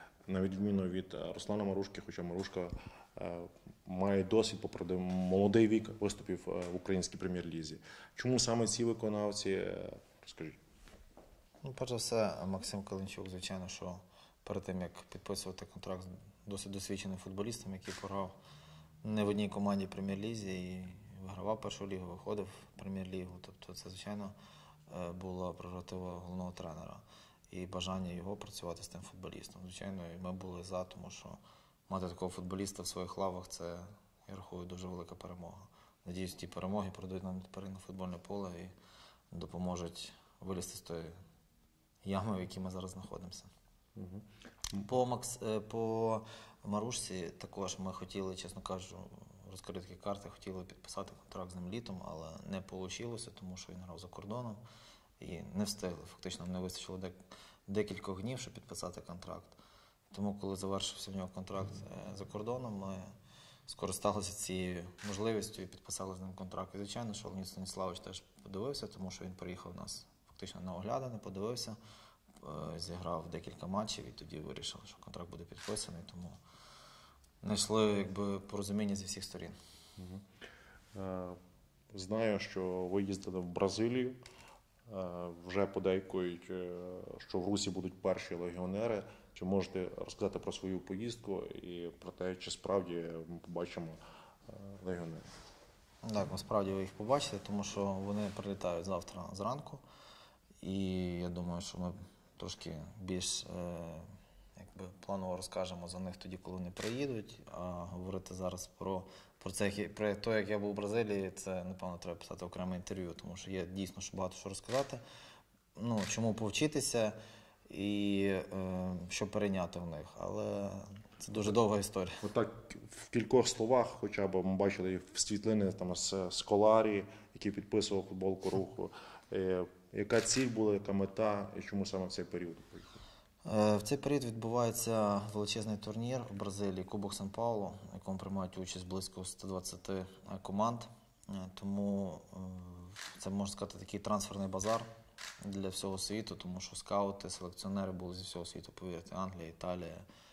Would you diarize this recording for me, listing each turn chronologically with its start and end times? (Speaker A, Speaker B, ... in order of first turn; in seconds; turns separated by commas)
Speaker A: 0.3-10.6, Speaker B: 11.6-18.3, Speaker B: 19.0-24.3, Speaker B: 24.9-38.7, Speaker B: 39.3-41.1, Speaker B: 42.0-43.5, Speaker A: 44.0-44.2, Speaker B: 44.7-54.6, Speaker B: 55.2-57.1, Speaker B: 57.7-59.6, Speaker B: 60.1-63.1, Speaker B: 63.7-71.8, Speaker B: 72.4-76.4, Speaker B: 77.4-79.5, Speaker A: 80.0-80.2, Speaker A: 80.9-81.4, Speaker A: 81.9-84.2, Speaker A: 84.9-95.3, Speaker B: 96.0-99.8, Speaker B: 100.6-115.0, Speaker B: 115.8-117.2, Speaker B: 117.7-122.2, Speaker A: 122.2-133.0, Speaker B: 133.4-144.9, Speaker B: 145.4-150.0